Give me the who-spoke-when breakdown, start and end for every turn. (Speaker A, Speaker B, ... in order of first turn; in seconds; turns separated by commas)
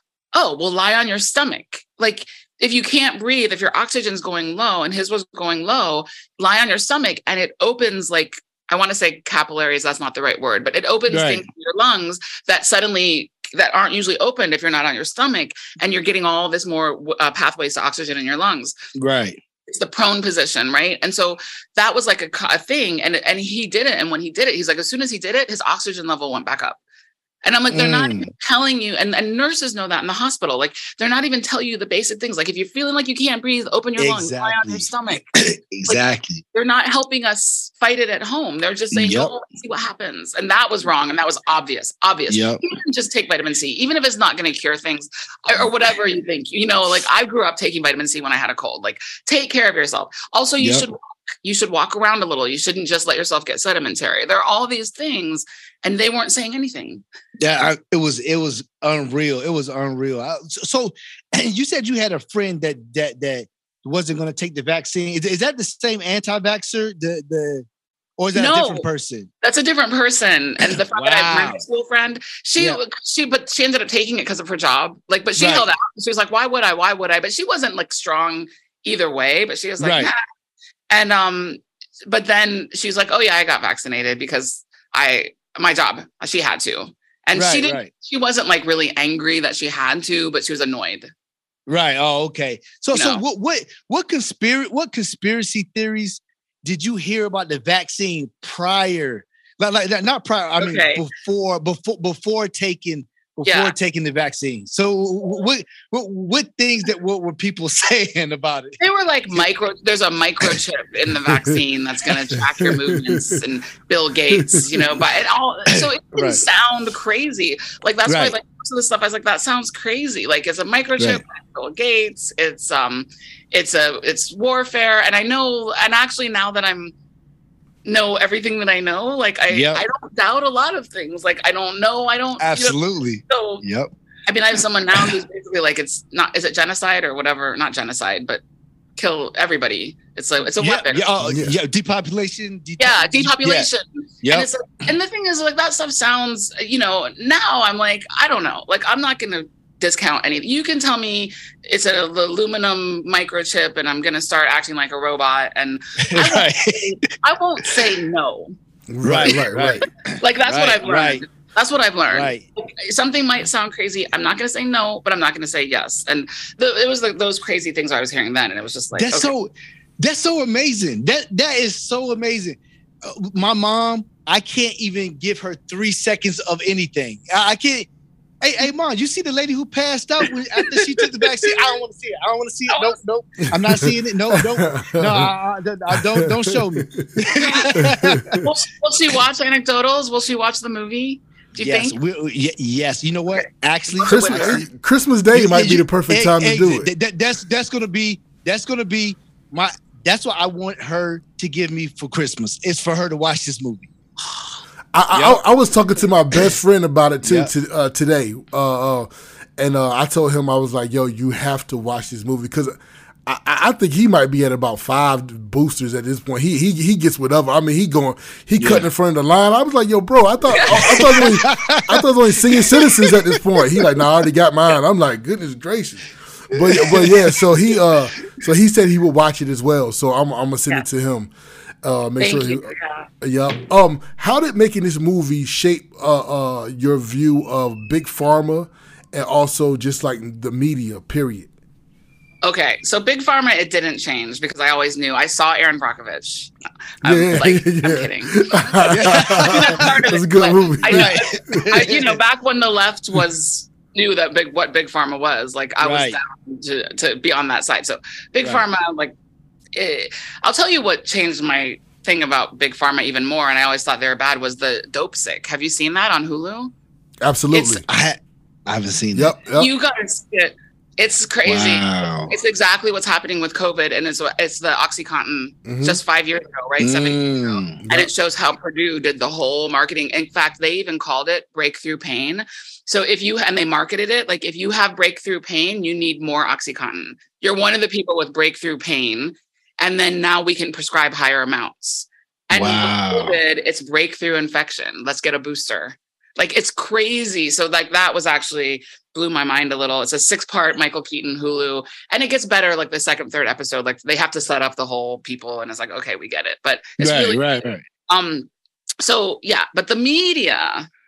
Speaker A: 0.3-18.7, Speaker B: 11.1-11.4, Speaker B: 18.9-19.4, Speaker A: 19.7-26.8, Speaker A: 27.4-35.3, Speaker B: 27.7-28.3, Speaker B: 34.0-36.4, Speaker A: 36.5-57.0, Speaker B: 38.9-39.3, Speaker B: 42.3-42.6, Speaker B: 50.6-50.9, Speaker B: 57.4-67.7, Speaker B: 68.2-69.3, Speaker A: 68.3-68.8, Speaker A: 69.4-80.2, Speaker B: 70.7-71.6, Speaker B: 75.4-75.7, Speaker B: 79.8-80.1, Speaker A: 80.9-91.1, Speaker B: 87.3-87.9, Speaker B: 91.7-108.8, Speaker A: 92.9-93.2, Speaker A: 100.6-101.0, Speaker A: 103.5-103.7, Speaker A: 108.8-126.9, Speaker C: 112.8-113.3, Speaker C: 114.3-114.8, Speaker B: 115.7-116.4, Speaker B: 118.0-118.3, Speaker A: 127.8-132.8, Speaker B: 129.5-129.8, Speaker B: 132.4-133.9, Speaker A: 133.3-133.6, Speaker A: 134.3-138.4, Speaker A: 138.9-141.0, Speaker B: 140.6-143.7, Speaker C: 141.2-141.6, Speaker A: 142.8-158.5, Speaker B: 144.2-144.5, Speaker B: 156.0-157.1, Speaker C: 158.9-159.8, Speaker B: 159.0-161.2, Speaker A: 160.2-169.3, Speaker B: 162.1-162.4, Speaker B: 168.9-177.9, Speaker B: 178.4-188.4, Speaker A: 181.2-181.7, Speaker A: 182.7-183.0, Speaker C: 183.5-185.3, Speaker C: 185.9-187.1, Speaker A: 187.3-187.7, Speaker C: 187.7-188.4, Speaker A: 188.4-192.0, Speaker B: 191.6-194.7, Speaker A: 193.3-194.6, Speaker C: 194.0-196.9, Speaker B: 195.3-203.9, Speaker C: 204.9-231.3, Speaker B: 205.1-205.4, Speaker B: 207.2-207.5, Speaker B: 218.6-218.8, Speaker A: 220.5-221.2, Speaker B: 220.7-223.4, Speaker B: 226.6-227.4, Speaker C: 231.8-241.5, Speaker A: 232.2-233.1, Speaker A: 242.4-246.5, Speaker C: 247.0-251.7, Speaker A: 247.0-259.1, Speaker B: 248.8-249.9, Speaker B: 250.9-252.2, Speaker B: 255.8-256.2, Speaker A: 259.7-266.7, Speaker C: 267.2-267.8, Speaker A: 267.5-267.8, Speaker B: 267.9-269.4, Speaker C: 269.1-269.7, Speaker A: 269.6-307.4, Speaker B: 271.4-272.4, Speaker C: 275.6-276.0, Speaker B: 276.8-277.8, Speaker B: 292.5-293.4, Speaker B: 307.0-307.8, Speaker A: 308.1-308.5, Speaker A: 309.0-310.9